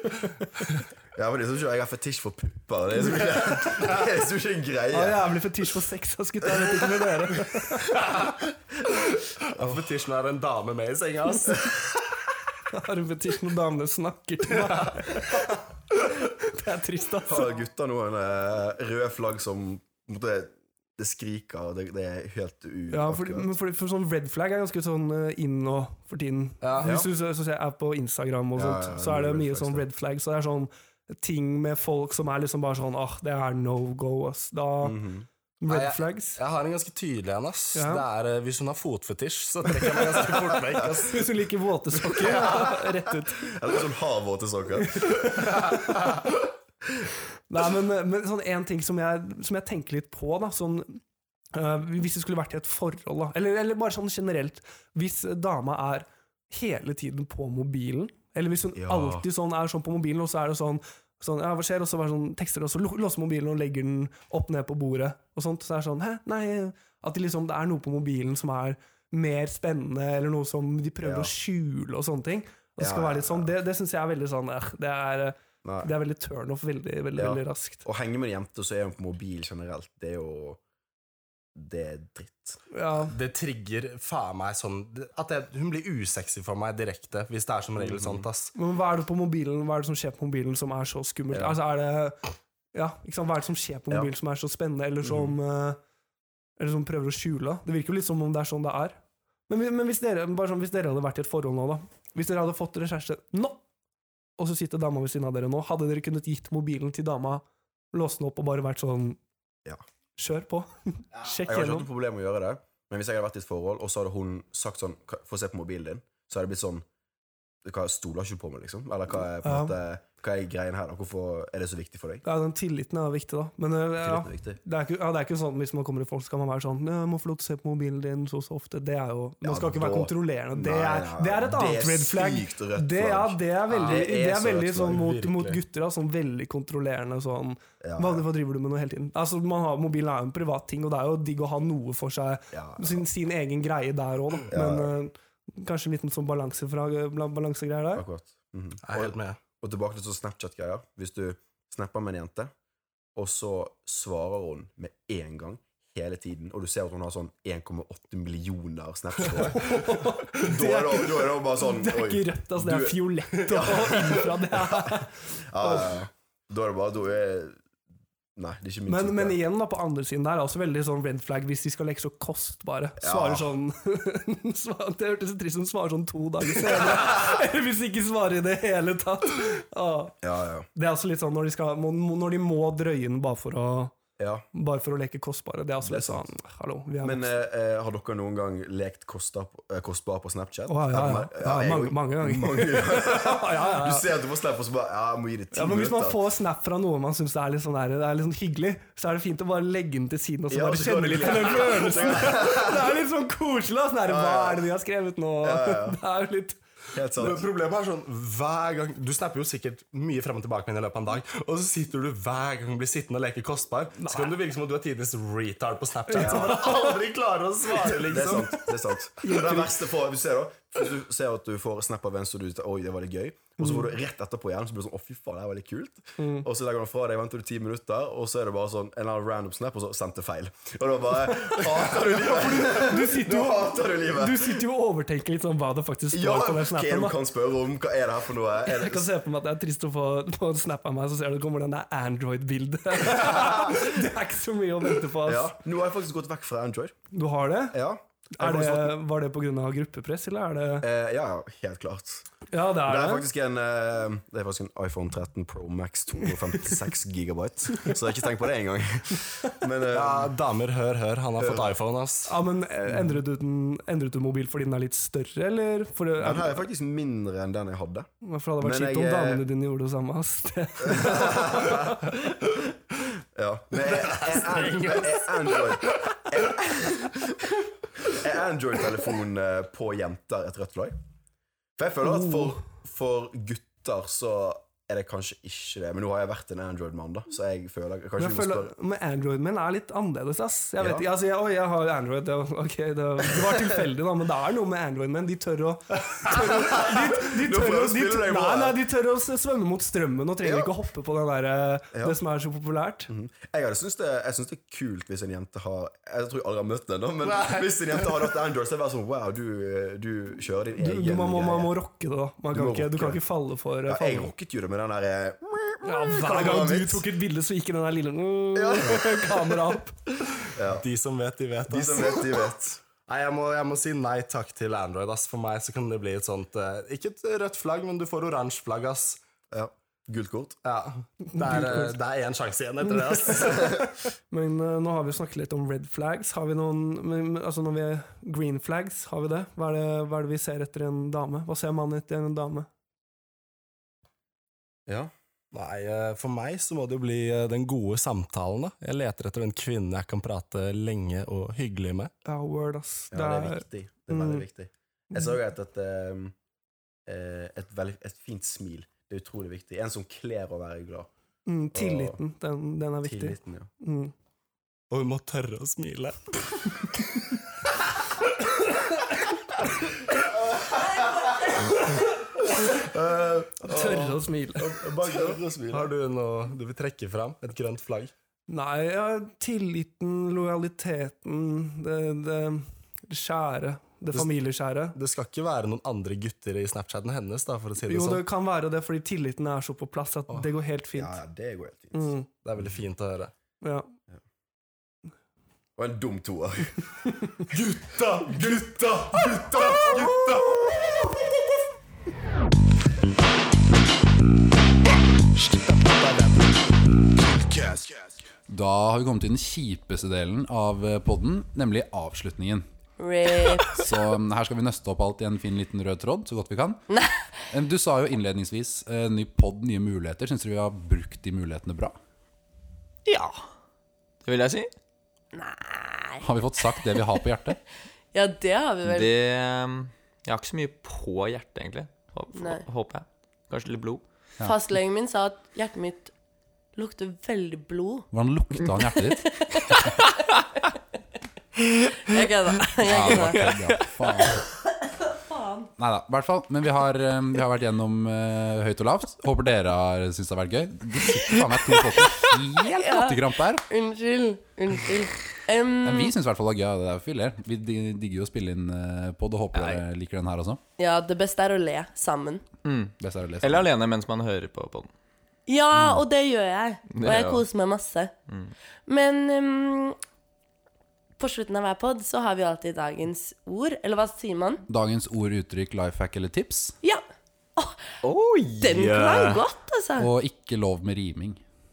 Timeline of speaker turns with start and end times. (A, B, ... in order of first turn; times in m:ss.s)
0:01.1-0:05.3 A
0:04.9-0:08.0 B
0:09.5-0:11.7 C
0:09.6-0:09.8 A
0:12.7-0:15.6 B
0:16.3-0:17.6 B
0:17.2-0:23.5 A
0:22.9-0:35.0 B
0:26.6-0:26.9 C
0:28.6-0:29.8 A
0:34.8-0:35.3 A
0:35.6-0:36.4 B
0:35.7-0:41.2 C
0:37.7-0:38.0 B
0:39.7-0:43.5 B
0:42.2-0:42.8 A
0:42.3-0:42.7 C
0:43.4-0:45.2 A
0:44.8-0:46.2 B
0:47.5-0:51.0 B
0:51.5-1:17.8 B
0:58.8-0:59.2 A
1:11.0-1:11.3 A
1:12.8-1:13.5 A
1:15.6-1:15.9 A
1:17.2-1:20.6 A
1:21.5-1:22.6 A
1:22.7-1:23.1 B
1:23.1-1:28.5 C
1:27.8-1:28.2 A
1:28.5-1:32.2 B
1:32.7-1:35.8 B
1:35.0-1:35.3 A
1:36.6-1:43.6 B
1:44.4-1:49.2 B
1:50.2-1:51.9 B
1:51.3-1:56.8 A
1:57.6-2:02.2 A
1:59.4-1:59.8 B
2:02.2-2:28.0 B
2:04.0-2:04.6 A
2:09.4-2:15.0 A
2:13.7-2:14.0 C
2:14.9-2:15.6 C
2:17.8-2:18.2 A
2:22.5-2:23.0 A
2:24.5-2:24.9 A
2:27.9-2:32.5 A
2:28.8-2:29.4 C
2:33.2-2:47.6 A
2:39.3-2:46.0 B
2:48.4-2:49.4 A
2:48.9-3:00.2 B
2:53.0-2:53.5 A
3:00.2-3:00.7 A
3:00.7-3:04.0 B
3:04.2-3:04.4 A
3:04.5-3:07.3 B
3:05.8-3:06.2 A
3:07.0-3:16.2 A
3:10.7-3:14.1 B
3:15.5-3:26.6 B
3:20.5-3:23.0 A
3:24.0-3:24.6 A
3:25.4-3:26.0 A
3:26.9-3:27.4 A
3:27.2-3:38.6 C
3:34.0-3:34.4 B
3:36.1-3:37.0 B
3:36.1-3:36.6 A
3:37.8-3:54.6 A
3:39.2-3:39.8 B
3:43.6-3:43.9 B
3:46.2-3:46.5 B
3:51.5-3:57.2 B
3:56.1-3:59.1 A
3:58.6-4:05.6 B
4:03.2-4:03.8 A
4:05.2-4:07.0 A
4:07.1-4:07.8 B
4:07.7-4:08.9 A
4:08.4-4:10.9 B
4:10.8-4:20.3 A
4:12.5-4:13.3 B
4:19.9-4:22.4 C
4:21.4-4:21.8 A
4:22.3-4:26.6 B
4:22.9-4:23.2 A
4:26.2-4:28.1 A
4:28.2-4:31.9 B
4:28.6-4:29.4 A
4:30.8-4:32.4 A
4:33.3-4:37.1 A
4:33.7-4:36.0 C
4:38.1-4:41.0 A
4:41.8-4:48.7 A
4:42.0-4:42.6 B
4:48.2-5:03.1 B
4:50.8-4:51.0 A
4:56.3-4:58.8 A
5:00.4-5:00.7 A
5:03.1-5:11.7 A
5:07.2-5:08.2 C
5:10.8-5:14.3 B
5:12.5-5:13.2 A
5:13.8-5:17.0 A
5:15.8-5:20.0 B
5:18.5-5:19.5 A
5:20.5-5:20.9 A
5:20.7-5:22.4 C
5:21.6-5:22.8 A
5:23.0-5:29.2 C
5:29.5-5:30.6 A
5:30.6-5:33.6 C
5:31.2-5:31.9 B
5:32.8-5:42.7 B
5:44.9-5:45.1 A
5:45.5-5:52.1 C
5:52.2-5:54.4 B
5:53.1-5:56.4 A
5:57.0-6:01.1 A
6:01.5-6:04.1 B
6:01.7-6:02.2 A
6:03.0-6:03.7 A
6:04.9-6:06.3 C
6:10.6-6:11.7 A
6:12.6-6:15.9 A
6:13.6-6:14.8 B
6:15.1-6:18.1 C
6:18.5-6:25.0 B
6:24.9-6:28.2 C
6:27.8-6:31.2 B
6:30.9-6:32.1 A
6:31.9-6:32.3 B
6:32.4-6:33.3 C
6:33.6-6:33.9 B
6:35.8-6:36.8 A
6:37.5-6:40.8 A
6:45.6-6:46.3 A
6:48.5-6:52.7 D
6:53.0-6:53.8 E
6:53.6-6:56.8 D
6:56.9-6:57.2 E
6:57.5-7:02.0 D
7:03.1-7:03.3 F
7:04.2-7:04.7 F
7:05.3-7:06.2 E
7:06.2-7:07.6 D
7:08.1-7:09.1 E
7:08.8-7:14.0 F
7:12.4-7:12.6 E
7:14.4-7:16.1 E
7:16.8-7:18.0 E
7:18.1-7:19.9 D
7:22.0-7:23.5 E
7:22.8-7:24.4 D
7:25.1-7:25.7 E
7:25.8-7:33.6 D
7:32.8-7:36.1 E
7:35.8-7:40.6 D
7:39.5-7:39.8 F
7:40.8-7:42.4 E
7:42.6-7:44.9 F
7:43.0-7:43.6 D
7:45.5-7:48.1 E
7:46.9-7:47.4 F
7:48.8-7:50.0 E
7:51.2-7:54.6 E
7:54.7-7:56.7 D
7:57.6-7:57.8 E
7:58.0-7:59.4 F
7:58.6-8:00.1 E
8:00.0-8:01.4 D